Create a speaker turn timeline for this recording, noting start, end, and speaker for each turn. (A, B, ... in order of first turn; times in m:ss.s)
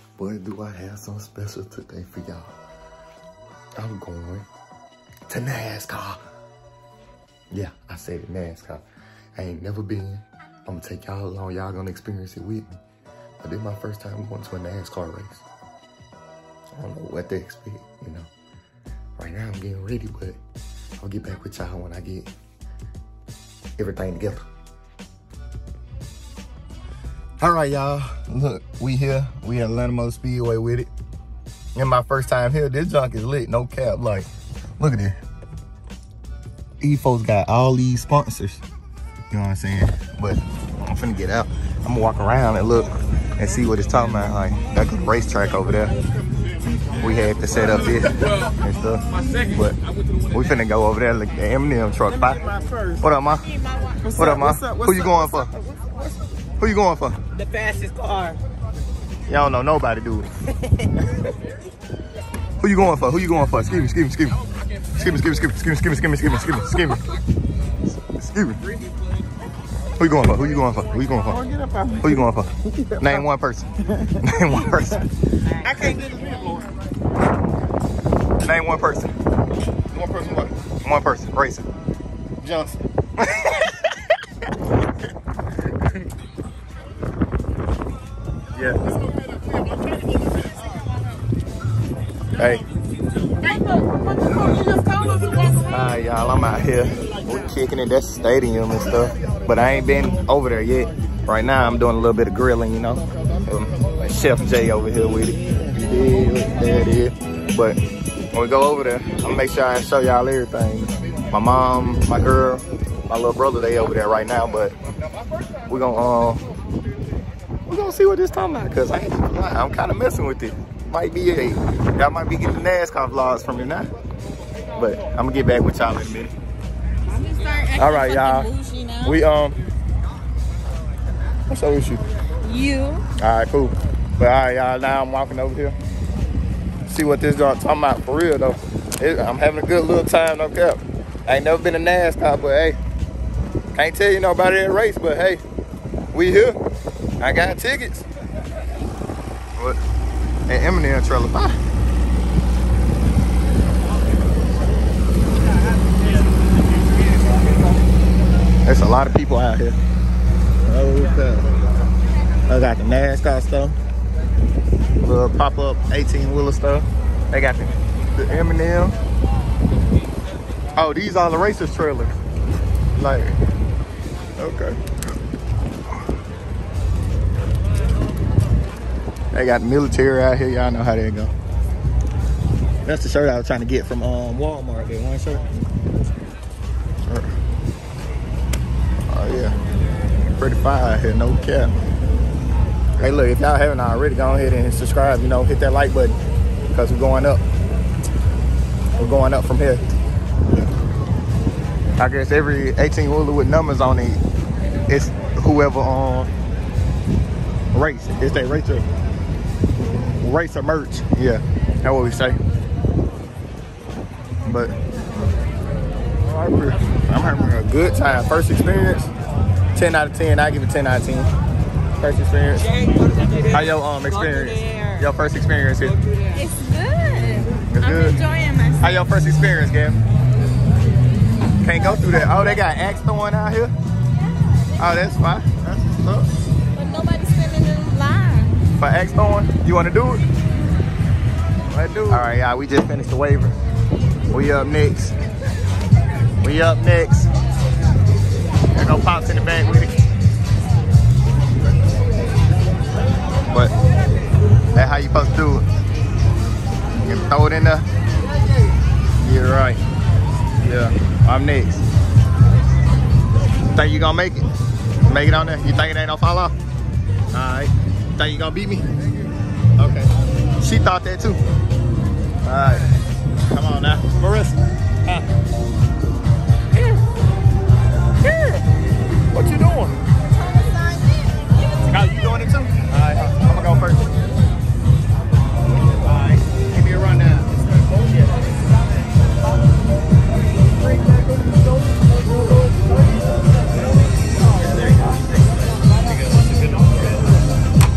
0:00.2-0:02.5 A
0:03.8-0:04.5 A
0:05.3-0:06.2 A
0:07.5-0:08.8 A
0:09.4-0:12.7 A
0:13.4-0:15.4 A
0:16.8-0:18.3 A
0:19.2-0:20.4 A
0:21.0-0:22.3 A
0:23.8-0:24.4 A
0:27.4-0:30.9 A
0:31.8-0:35.2 A
0:36.8-0:38.6 A
0:39.3-0:45.9 A
0:47.0-0:49.8 A
0:50.3-0:52.4 A
0:52.3-0:53.0 B
0:53.0-0:53.5 A
0:53.9-0:56.1 B
0:54.2-0:55.5 A
0:56.6-0:57.2 A
0:57.3-0:58.4 B
0:59.3-1:00.3 A
1:02.6-1:04.4 A
1:04.9-1:07.0 A
1:08.0-1:08.6 A
1:10.0-1:11.4 A
1:11.3-1:13.2 B
1:12.0-1:15.1 A
1:15.6-1:16.7 B
1:18.4-1:19.1 A
1:19.9-1:21.6 A
1:22.4-1:23.9 A
1:32.4-1:32.6 A
1:33.4-1:35.5 C
1:35.6-1:47.8 A
1:48.3-1:54.7 A
1:55.7-1:56.4 A
1:57.7-2:03.9 A
2:04.8-2:06.3 A
2:07.1-2:09.2 C
2:07.8-2:08.5 A
2:09.0-2:09.6 A
2:11.5-2:12.0 A
2:12.4-2:13.0 C
2:13.2-2:15.8 A
2:16.9-2:22.8 A
2:23.7-2:25.4 A
2:26.1-2:26.6 A
2:27.2-2:28.0 A
2:30.5-2:31.6 A
2:38.6-2:39.8 A
2:40.6-2:41.6 A
2:42.5-2:43.8 A
2:45.0-2:48.9 A
2:50.7-2:52.2 A
2:52.9-2:53.4 A
2:54.4-2:54.8 A
2:59.3-3:01.3 A
3:02.8-3:05.4 A
3:09.1-3:09.5 A
3:10.2-3:11.7 A
3:13.0-3:16.1 A
3:16.7-3:17.4 A
3:19.0-3:19.8 A
3:22.0-3:24.2 A
3:24.9-3:26.3 A
3:27.7-3:28.8 A
3:30.2-3:32.4 A
3:34.4-3:34.7 A
3:36.2-3:39.1 A
3:39.7-3:41.3 A
3:42.0-3:42.7 A
3:42.7-3:45.0 B
3:43.5-3:46.0 A
3:46.0-3:46.4 B
3:46.3-3:49.0 C
3:47.7-3:48.2 A
3:48.8-3:50.0 A
3:51.6-3:53.7 A
3:54.8-3:56.3 A
3:56.7-3:58.6 C
3:58.8-4:00.2 A
4:01.7-4:03.6 A
4:04.3-4:05.1 A
4:06.4-4:07.3 A
4:08.7-4:09.9 A
4:14.7-4:15.6 A
4:17.0-4:17.8 A
4:19.2-4:19.8 A
4:20.6-4:21.8 A
4:23.7-4:24.4 A
4:25.0-4:26.5 A
4:27.3-4:28.9 A
4:29.8-4:31.4 A
4:32.4-4:32.9 A
4:33.5-4:35.2 A
4:38.2-4:38.6 A
4:39.3-4:39.9 A
4:40.4-4:41.5 C
4:41.8-4:44.1 A
4:46.0-4:47.5 A
4:54.6-4:55.4 B